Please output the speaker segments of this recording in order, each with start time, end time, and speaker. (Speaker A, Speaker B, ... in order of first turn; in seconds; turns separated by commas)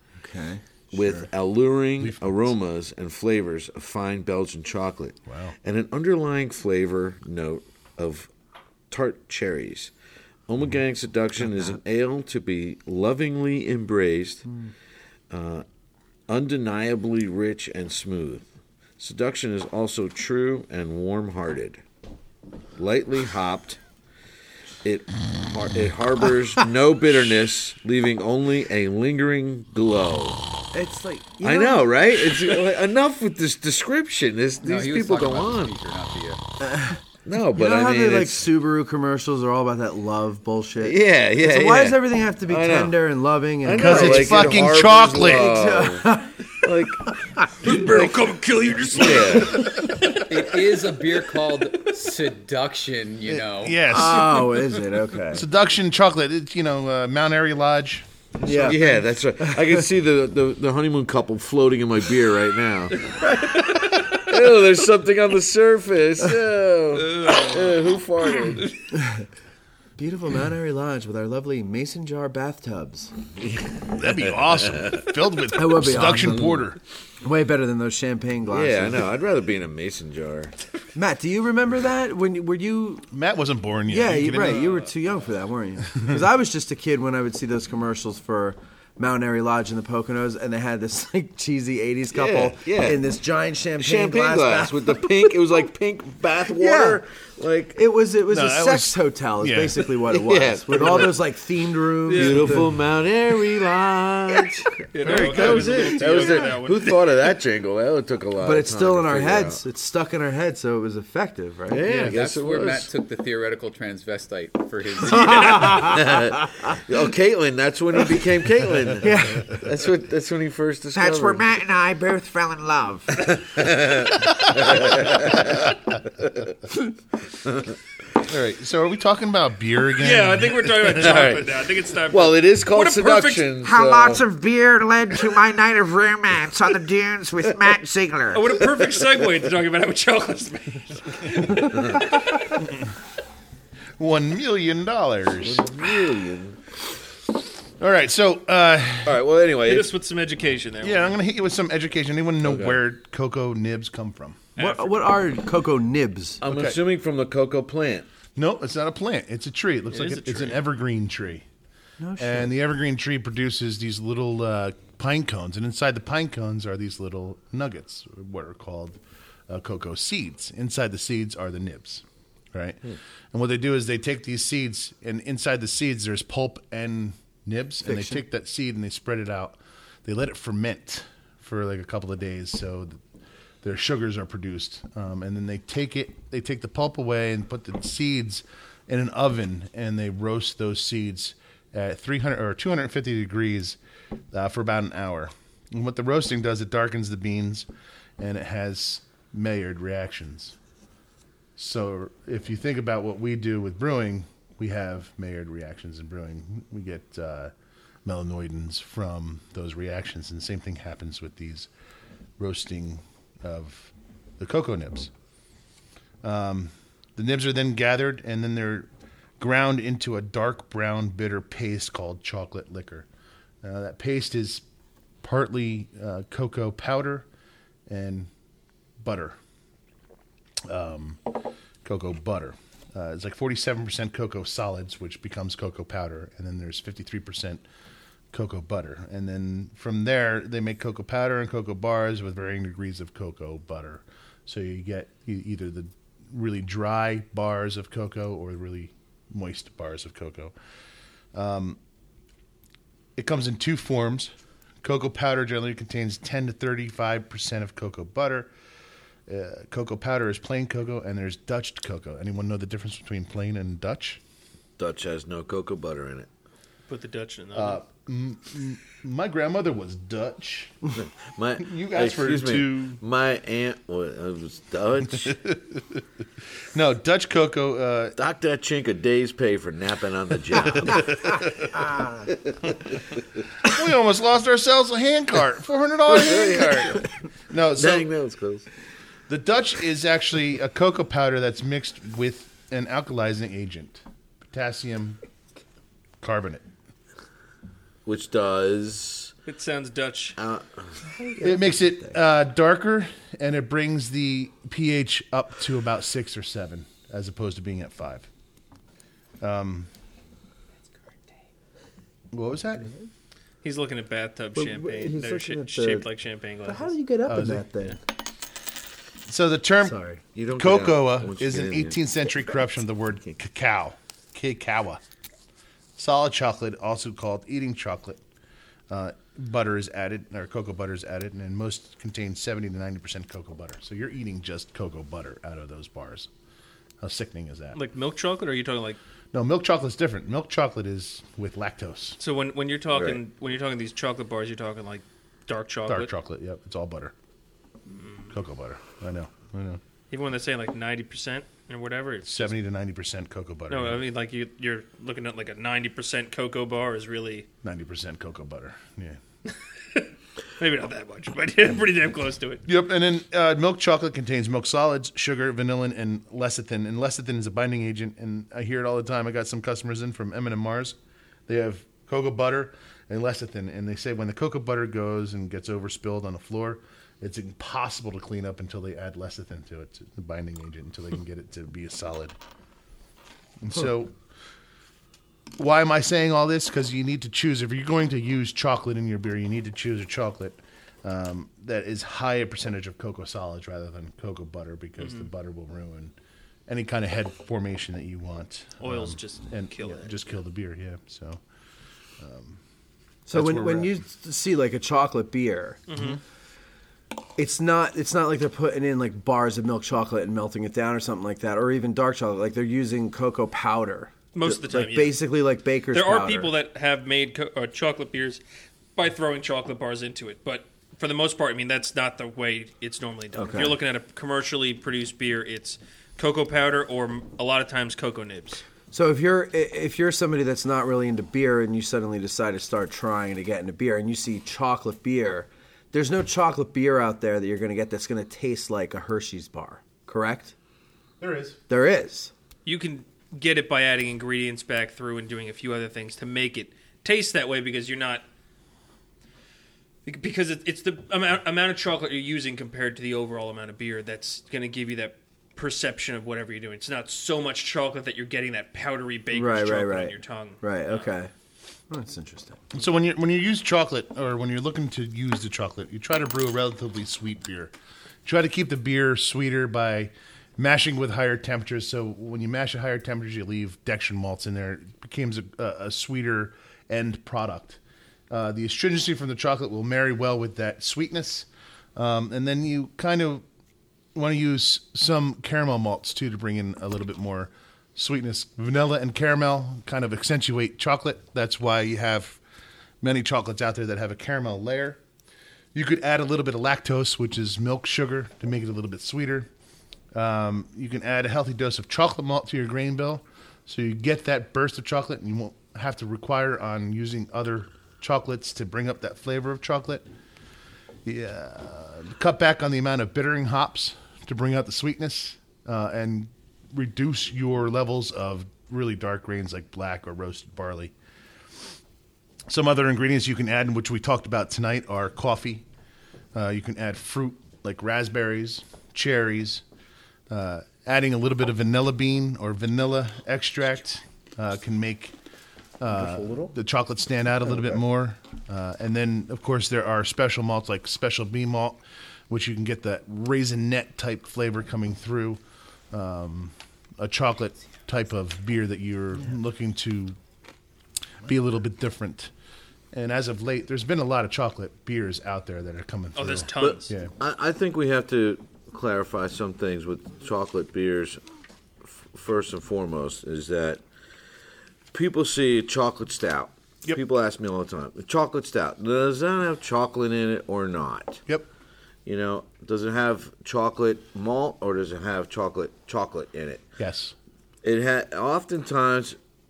Speaker A: 0.2-1.3, Speaker B: 0.9-8.3, Speaker C: 2.0-2.5, Speaker C: 5.3-5.5, Speaker B: 8.9-9.9, Speaker B: 10.5-14.5, Speaker B: 15.3-15.7, Speaker B: 16.3-18.4, Speaker B: 19.0-21.8, Speaker B: 22.8-23.8, Speaker B: 24.8-30.4, Speaker A: 30.7-32.5, Speaker B: 31.4-35.7, Speaker D: 34.6-36.4, Speaker A: 36.6-37.0, Speaker B: 37.2-38.5, Speaker A: 37.5-47.9, Speaker B: 40.8-43.0, Speaker B: 43.6-48.3, Speaker C: 43.7-45.5, Speaker E: 47.6-49.9, Speaker B: 48.9-49.7, Speaker C: 49.7-50.0, Speaker D: 50.2-53.9, Speaker C: 53.3-54.6, Speaker A: 53.9-55.5, Speaker C: 55.3-58.0, Speaker A: 58.4-59.8, Speaker B: 58.5-63.0, Speaker A: 63.2-64.0, Speaker B: 64.1-68.7, Speaker E: 67.0-67.7, Speaker A: 68.9-69.2, Speaker A: 70.0-73.1, Speaker B: 73.4-75.0, Speaker C: 73.9-76.8, Speaker A: 75.5-76.6, Speaker B: 76.2-76.5, Speaker A: 77.2-79.1, Speaker B: 78.5-80.5, Speaker A: 80.9-83.1, Speaker C: 83.1-84.8, Speaker A: 83.9-95.4, Speaker B: 92.1-93.0, Speaker B: 93.8-97.8, Speaker A: 96.5-97.0, Speaker A: 97.7-102.7, Speaker C: 98.3-99.9, Speaker B: 100.0-101.2, Speaker C: 100.7-101.1, Speaker E: 102.1-102.6, Speaker B: 102.1-109.6, Speaker E: 104.9-107.3, Speaker C: 105.0-106.0, Speaker A: 105.3-105.8, Speaker A: 108.4-111.9, Speaker B: 111.7-112.9, Speaker C: 111.8-112.1, Speaker D: 112.0-115.9, Speaker A: 115.0-116.2, Speaker B: 115.3-121.5, Speaker A: 119.0-119.6, Speaker F: 120.9-123.4, Speaker B: 123.2-126.5, Speaker C: 124.2-125.5, Speaker B: 127.4-127.7, Speaker C: 128.2-131.1, Speaker E: 130.0-133.5, Speaker B: 130.9-131.6, Speaker B: 132.1-134.2, Speaker F: 133.6-138.6, Speaker E: 138.3-142.5, Speaker C: 144.0-145.9, Speaker B: 145.4-146.6, Speaker C: 147.8-149.2, Speaker B: 149.0-149.9, Speaker E: 149.6-151.2, Speaker C: 150.8-154.4, Speaker B: 152.4-152.8, Speaker E: 154.6-155.0, Speaker A: 154.6-156.4, Speaker B: 156.4-158.1, Speaker C: 156.5-156.8, Speaker C: 158.3-161.4, Speaker E: 159.9-160.6, Speaker A: 162.0-162.5, Speaker C: 162.2-183.0, Speaker A: 177.8-178.2, Speaker C: 183.6-193.8, Speaker C: 194.3-197.7, Speaker C: 198.2-200.5, Speaker C: 201.6-207.5, Speaker C: 208.0-211.7, Speaker C: 212.4-215.1, Speaker C: 216.2-218.9, Speaker C: 219.4-223.1, Speaker C: 223.6-224.6, Speaker C: 225.2-227.2, Speaker C: 227.9-228.3, Speaker C: 229.0-229.4, Speaker C: 230.7-231.3, Speaker C: 231.8-237.6, Speaker C: 238.3-250.5, Speaker C: 251.3-251.8, Speaker C: 253.2-258.5, Speaker C: 259.3-264.2, Speaker B: 264.8-266.3, Speaker E: 266.9-267.8, Speaker C: 267.5-270.9, Speaker B: 271.0-275.4, Speaker C: 271.6-273.0, Speaker C: 275.2-275.8, Speaker C: 276.7-278.1, Speaker B: 278.1-281.4, Speaker C: 281.2-281.7, Speaker B: 282.2-283.2, Speaker C: 283.6-288.1, Speaker B: 286.1-287.0, Speaker B: 287.8-288.7, Speaker C: 289.3-295.2, Speaker C: 296.2-296.6, Speaker B: 298.1-299.3, Speaker E: 299.5-300.4, Speaker B: 300.4-300.9, Speaker A: 301.2-302.1, Speaker C: 301.4-308.3, Speaker C: 309.4-309.9, Speaker C: 312.3-312.9, Speaker E: 313.6-316.9, Speaker A: 314.5-316.1, Speaker A: 316.6-318.0, Speaker C: 317.3-317.7, Speaker C: 319.3-320.0, Speaker A: 319.8-320.2, Speaker B: 320.3-322.0, Speaker C: 320.5-325.0, Speaker C: 325.9-328.2, Speaker C: 328.9-336.3, Speaker C: 337.0-337.8, Speaker E: 337.7-339.0, Speaker C: 339.3-342.2, Speaker E: 342.2-346.1, Speaker B: 342.9-343.2, Speaker C: 345.9-347.1, Speaker E: 347.9-348.3, Speaker C: 348.3-349.8, Speaker E: 350.1-352.5, Speaker C: 352.2-354.0, Speaker E: 353.7-357.5, Speaker C: 357.6-359.2, Speaker E: 359.9-362.6, Speaker C: 362.6-370.9, Speaker C: 371.5-382.3, Speaker C: 383.6-384.1, Speaker C: 385.6-396.1, Speaker E: 395.0-395.3, Speaker C: 396.7-401.4, Speaker E: 398.8-400.1, Speaker C: 402.2-402.6, Speaker A: 403.3-405.8, Speaker C: 403.3-404.0, Speaker E: 405.9-406.2, Speaker A: 407.4-416.5, Speaker E: 414.3-415.2, Speaker E: 415.9-418.4, Speaker E: 418.9-428.6, Speaker A: 423.3-423.8, Speaker A: 428.9-440.5, Speaker C: 441.2-441.6, Speaker A: 441.7-442.3, Speaker E: 442.6-448.2, Speaker E: 450.1-461.1, Speaker A: 459.3-461.3, Speaker A: 461.9-462.6, Speaker C: 462.7-467.7, Speaker C: 468.2-477.8, Speaker C: 478.3-483.4, Speaker C: 484.1-492.4, Speaker C: 493.0-495.0, Speaker C: 495.7-499.5, Speaker C: 500.1-510.0, Speaker C: 511.0-520.9, Speaker C: 522.5-525.6, Speaker C: 526.3-529.6, Speaker C: 530.3-535.1, Speaker C: 535.8-545.4, Speaker A: 535.9-536.5, Speaker C: 545.9-550.2, Speaker C: 551.2-552.3, Speaker C: 552.9-557.1, Speaker E: 556.1-556.9, Speaker B: 556.6-561.2, Speaker B: 561.8-563.8, Speaker B: 564.9-571.2, Speaker B: 572.0-576.6, Speaker C: 576.8-577.1, Speaker B: 577.6-579.2